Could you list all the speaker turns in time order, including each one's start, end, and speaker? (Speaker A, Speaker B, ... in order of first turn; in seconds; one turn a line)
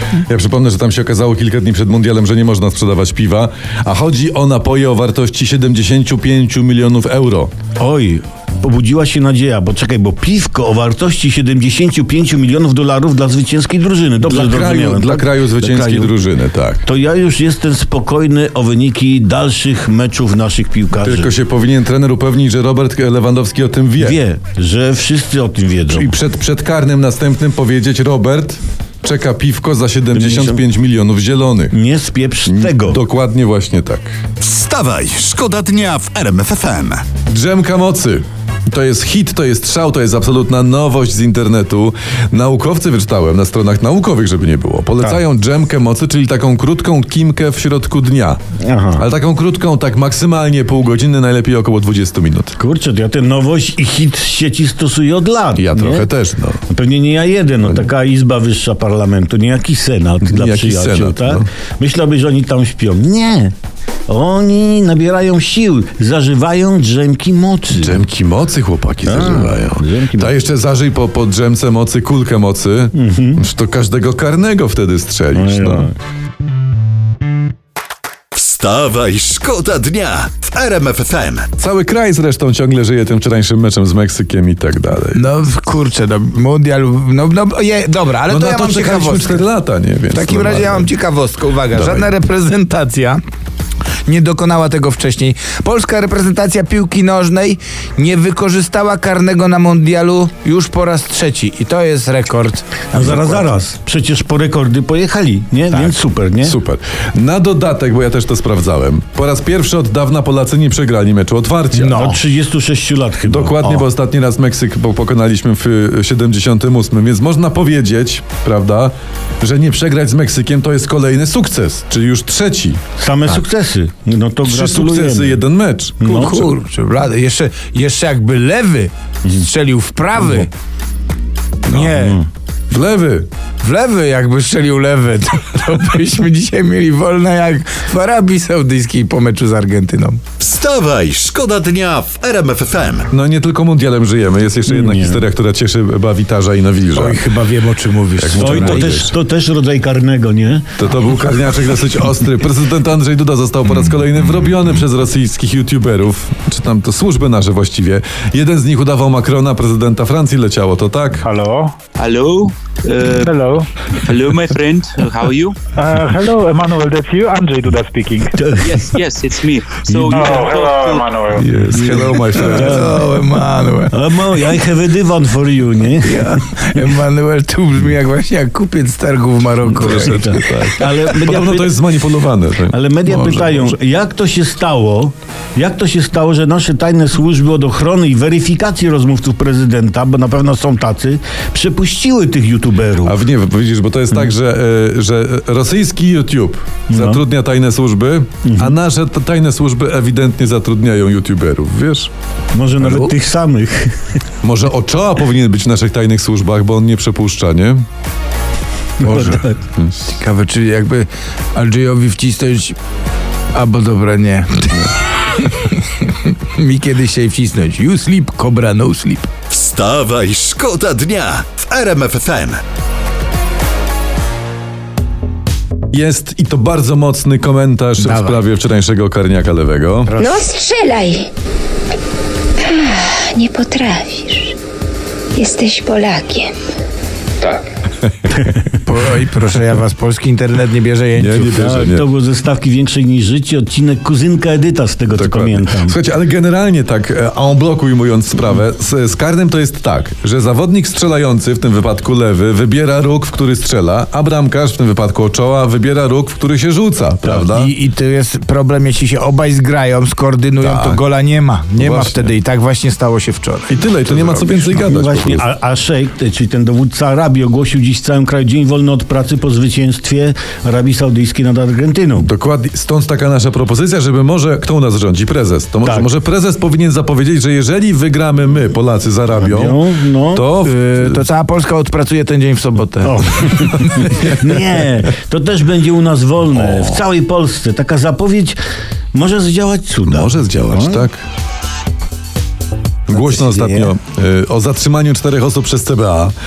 Speaker A: 0.3-7.5
Speaker B: 7.8-16.2
Speaker A: 14.2-16.8
Speaker B: 16.8-21.3
Speaker A: 21.0-24.2
Speaker B: 24.0-26.1
Speaker A: 25.9-31.8
Speaker B: 30.1-30.6
Speaker B: 31.7-33.0
Speaker A: 32.5-34.2
Speaker C: 34.4-37.0
Speaker A: 37.3-48.4
Speaker B: 48.6-49.1
Speaker A: 49.0-52.6
Speaker B: 52.6-56.1
Speaker A: 55.5-56.6
Speaker B: 56.7-63.5
Speaker A: 60.2-61.5
Speaker B: 64.1-68.0
Speaker A: 67.7-75.9
Speaker B: 69.0-70.3
Speaker B: 72.9-73.4
Speaker B: 75.3-76.0
Speaker C: 78.3-81.5
Speaker A: 81.6-85.2
Speaker D: 85.1-89.4
Speaker A: 88.3-90.9
Speaker D: 90.1-93.2
Speaker A: 91.7-92.1
Speaker D: 94.1-103.5
Speaker B: 102.9-106.6
Speaker A: 106.4-112.0
Speaker D: 111.7-112.2
Speaker B: 111.9-113.9
Speaker A: 113.3-122.8
Speaker B: 123.0-125.4
Speaker A: 124.4-126.5
Speaker B: 126.0-126.3
Speaker D: 126.1-130.5
Speaker B: 130.2-130.5
Speaker D: 131.7-132.2
Speaker B: 131.7-132.3
Speaker A: 132.7-133.3
Speaker D: 133.6-140.2
Speaker C: 140.4-143.1
Speaker A: 143.1-147.2
Speaker B: 144.7-145.3
Speaker D: 146.9-149.1
Speaker A: 148.2-149.1
Speaker B: 148.3-150.7
Speaker A: 150.8-161.2
Speaker E: 161.2-161.8
Speaker F: 161.9-163.4
Speaker E: 163.2-163.7
Speaker F: 164.0-165.6
Speaker E: 165.8-168.3
Speaker B: 168.4-168.9
Speaker F: 168.6-171.2
Speaker B: 169.9-170.3
Speaker E: 170.1-172.2
Speaker A: 171.4-172.8
Speaker D: 171.4-174.0
Speaker B: 172.5-173.0
Speaker B: 173.9-176.4
Speaker D: 176.0-181.1
Speaker A: 179.7-183.8
Speaker B: 179.8-181.9
Speaker B: 182.7-193.2
Speaker A: 193.0-202.1
Speaker B: 196.9-197.2
Speaker B: 198.5-198.8
Speaker B: 202.5-204.2
Speaker D: 202.8-203.1
Speaker A: 204.4-207.8
Speaker B: 209.0-209.6
Speaker D: 209.0-209.4
Speaker D: 210.1-212.8
Speaker D: 213.5-219.3
Speaker C: 219.5-222.6
Speaker A: 225.9-230.1
Speaker D: 228.0-228.4
Speaker D: 230.1-230.5
Speaker G: 230.2-231.3
Speaker G: 232.6-234.6
Speaker G: 235.3-236.6
Speaker D: 238.7-241.5
Speaker A: 241.2-242.1
Speaker B: 241.5-246.0
Speaker A: 245.1-257.7
Speaker D: 257.5-264.6
Speaker A: 260.6-261.0
Speaker A: 261.8-262.3
Speaker A: 263.7-265.4
Speaker B: 264.3-272.3
Speaker A: 272.2-281.3
Speaker B: 275.8-276.1
Speaker B: 279.4-280.5
Speaker D: 280.6-283.5
Speaker B: 283.0-288.6
Speaker A: 284.1-285.0
Speaker A: 286.6-287.0
Speaker B: 289.1-291.1
Speaker A: 290.1-291.2
Speaker A: 293.1-296.3
Speaker B: 293.1-293.9